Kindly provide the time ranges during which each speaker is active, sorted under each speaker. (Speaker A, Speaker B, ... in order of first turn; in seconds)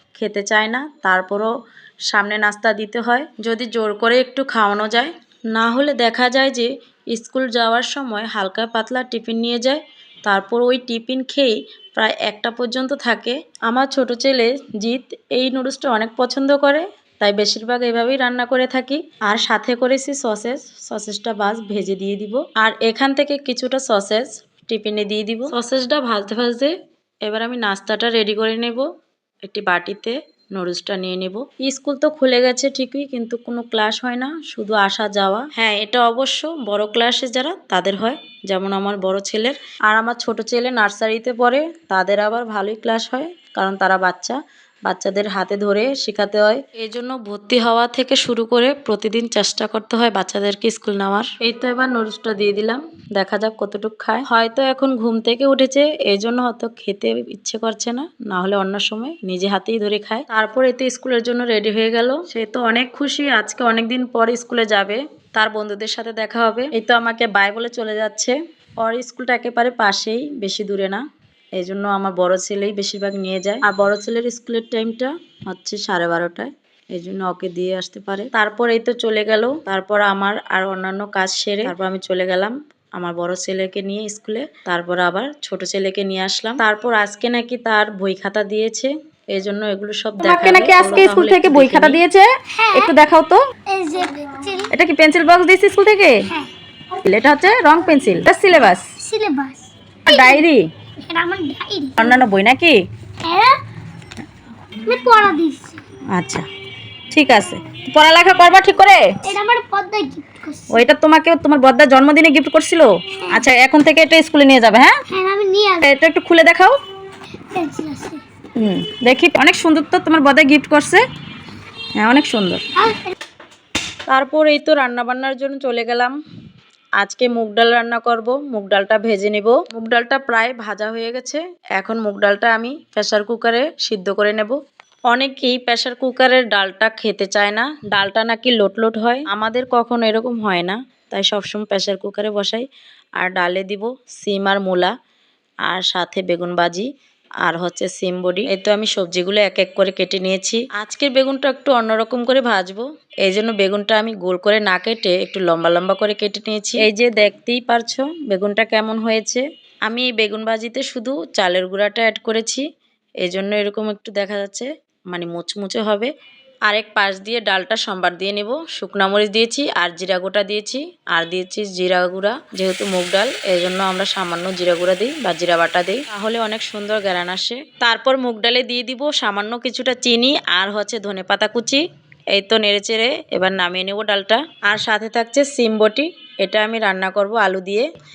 Speaker A: 0.1-1.5, 2.1-28.8, 29.4-71.0, 71.5-92.0, 106.1-106.4, 124.1-126.2, 127.0-134.6, 135.1-142.7, 143.2-144.9, 145.7-146.9, 147.4-162.6, 163.2-166.1, 166.7-187.8
Speaker B: 90.2-93.4, 94.7-96.2, 97.0-98.8, 100.1-100.6, 102.0-102.8, 107.1-109.3, 110.7-115.0, 115.8-116.8, 118.6-121.0, 122.0-122.6
Speaker C: 92.5-93.0, 93.7-94.7, 99.0-100.5, 101.0-102.2, 103.2-103.6, 104.8-105.8, 109.2-110.9, 115.1-115.9, 117.5-118.2, 122.8-123.0